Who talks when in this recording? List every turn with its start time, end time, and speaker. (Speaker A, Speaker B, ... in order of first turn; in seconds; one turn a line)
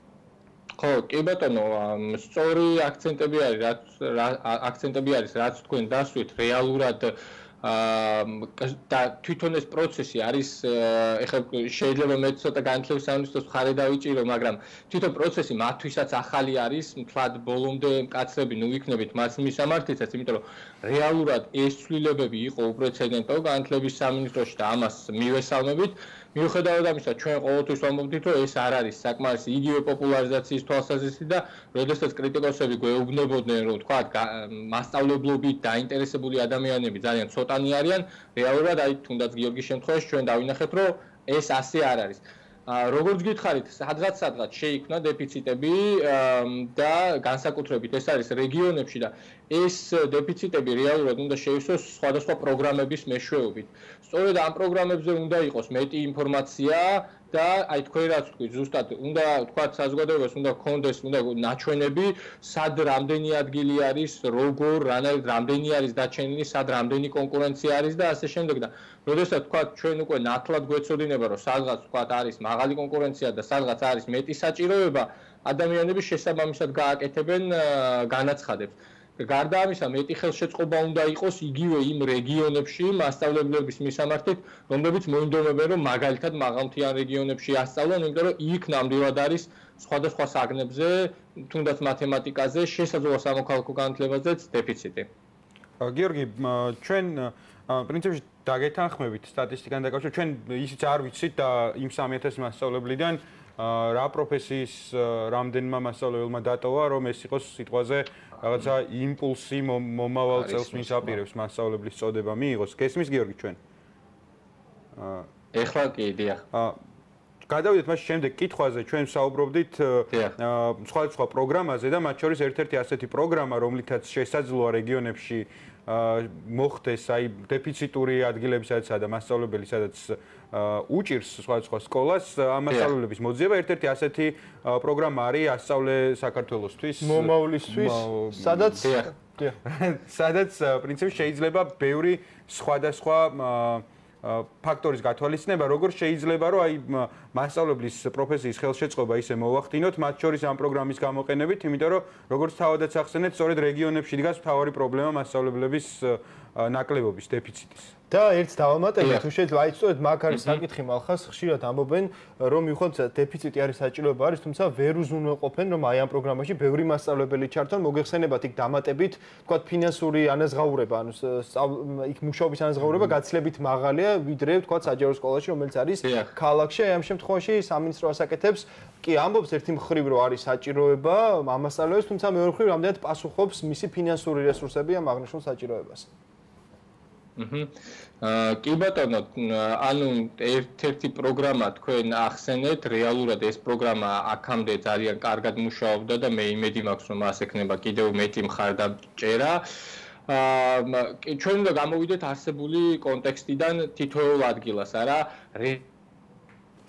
Speaker A: 0.8-95.1
Speaker B: 95.8-113.6
Speaker A: 110.3-111.2
Speaker B: 115.0-115.3
Speaker A: 115.5-116.5
Speaker B: 117.5-138.9
Speaker C: 137.0-139.6
Speaker A: 138.8-139.1
Speaker B: 139.6-157.9
Speaker C: 158.1-186.1
Speaker A: 160.3-160.6
Speaker A: 176.0-176.4
Speaker A: 187.4-199.7
Speaker A: 200.3-205.8